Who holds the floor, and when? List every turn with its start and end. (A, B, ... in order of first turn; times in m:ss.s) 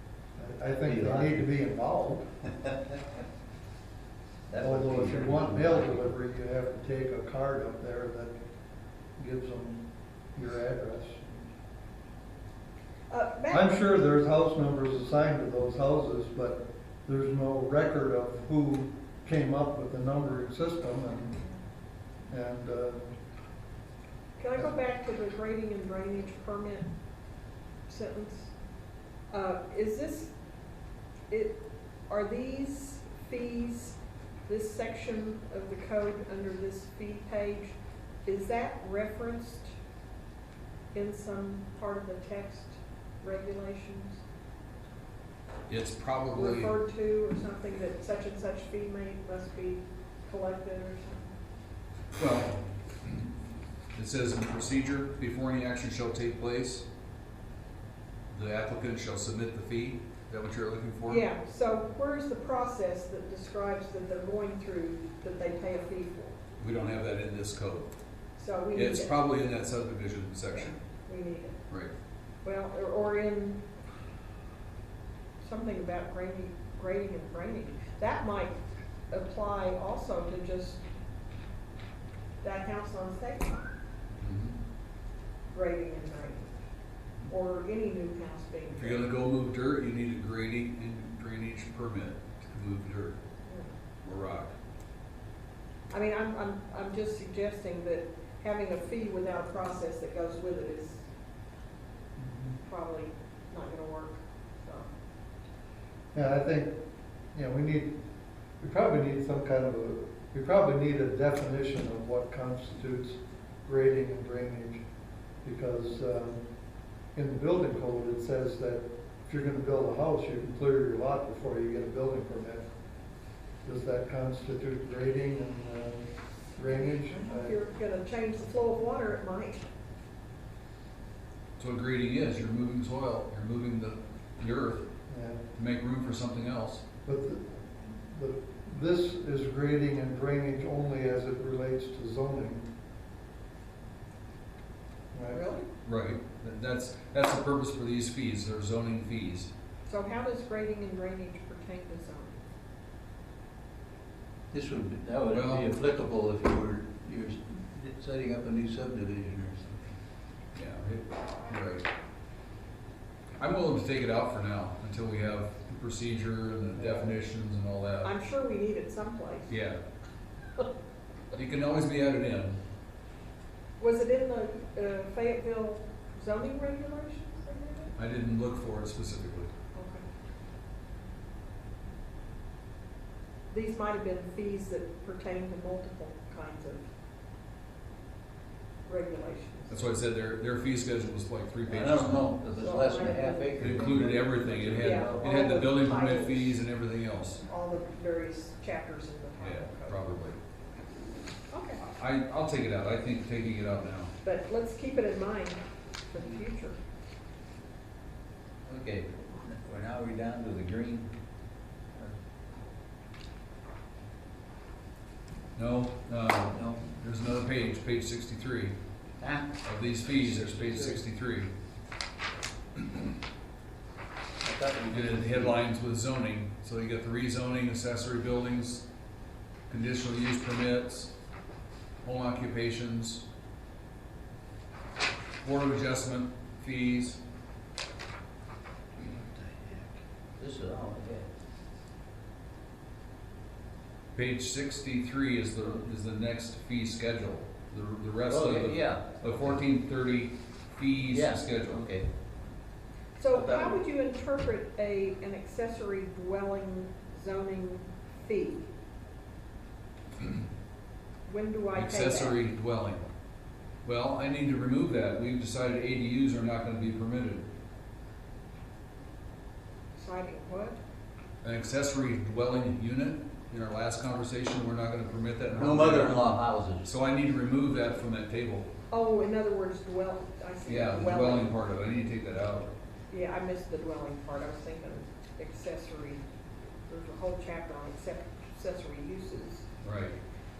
0:00.4-0:02.3 A
0:00.9-0:01.4 B
0:04.5-0:06.1 B
0:04.6-0:08.4 A
0:09.2-0:09.8 A
0:10.4-0:11.5 A
0:13.1-0:13.8 C
0:13.5-0:21.4 A
0:22.3-0:23.1 A
0:24.4-0:26.9 C
0:27.9-0:28.5 C
0:29.3-0:30.3 C
0:31.3-0:39.7 C
0:40.9-0:44.2 C
0:45.7-0:46.8 D
0:46.4-0:51.3 C
0:52.2-0:53.3 D
0:53.9-0:56.8 D
0:58.3-1:01.3 D
1:01.0-1:06.4 C
1:06.6-1:07.9 D
1:08.4-1:09.2 C
1:08.7-1:10.7 D
1:10.5-1:11.6 C
1:12.4-1:13.6 C
1:15.4-1:18.6 C
1:19.1-1:20.8 C
1:22.4-1:23.7 C
1:24.2-1:24.6 D
1:25.5-1:26.5 C
1:27.3-1:29.0 C
1:28.7-1:33.2 D
1:33.5-1:33.7 C
1:34.0-1:34.6 D
1:35.9-1:41.0 C
1:42.2-1:42.6 A
1:42.6-1:44.9 C
1:46.1-1:46.8 A
1:47.3-1:48.0 A
1:48.6-1:54.8 A
1:55.4-1:56.4 A
1:57.1-2:02.7 A
2:03.6-2:07.6 A
2:07.1-2:09.6 C
2:11.6-2:14.9 D
2:15.1-2:15.4 A
2:15.6-2:16.8 D
2:17.0-2:22.7 A
2:25.1-2:25.4 A
2:25.3-2:25.7 C
2:25.8-2:29.5 D
2:29.9-2:32.3 C
2:34.5-2:40.0 B
2:35.3-2:35.7 D
2:40.5-2:41.9 D
2:43.4-2:48.1 D
2:48.0-2:49.5 C
2:49.5-2:49.8 D
2:51.3-2:52.6 D
2:53.8-2:57.9 C
2:58.0-2:59.5 D
2:59.8-3:00.0 C
3:03.5-3:06.8 C
3:08.8-3:09.9 C
3:09.7-3:12.4 D
3:11.7-3:15.7 B
3:12.5-3:14.1 C
3:13.6-3:17.4 D
3:14.8-3:16.6 C
3:17.5-3:20.0 C
3:19.4-3:20.4 D
3:21.5-3:21.8 C
3:21.9-3:24.1 D
3:24.2-3:26.8 C
3:28.6-3:31.1 B
3:35.6-3:38.8 D
3:36.5-3:36.8 B
3:39.2-3:41.0 B
3:39.6-3:41.5 D
3:44.4-3:45.6 B
3:44.9-3:48.8 D
3:49.7-3:51.1 D
3:52.0-3:53.2 D
3:55.4-3:57.2 D
3:59.0-4:01.3 B
4:04.1-4:11.9 D
4:08.3-4:09.6 B
4:11.1-4:12.1 B
4:13.2-4:18.7 C
4:13.3-4:13.8 B
4:21.3-4:22.4 C
4:21.7-4:23.0 D
4:23.8-4:27.5 D
4:30.0-4:30.8 C
4:31.4-4:38.7 D
4:35.5-4:36.9 B
4:38.9-4:41.5 C
4:40.6-4:42.7 D
4:43.1-4:46.2 C
4:46.9-4:49.7 C
4:49.8-4:50.2 D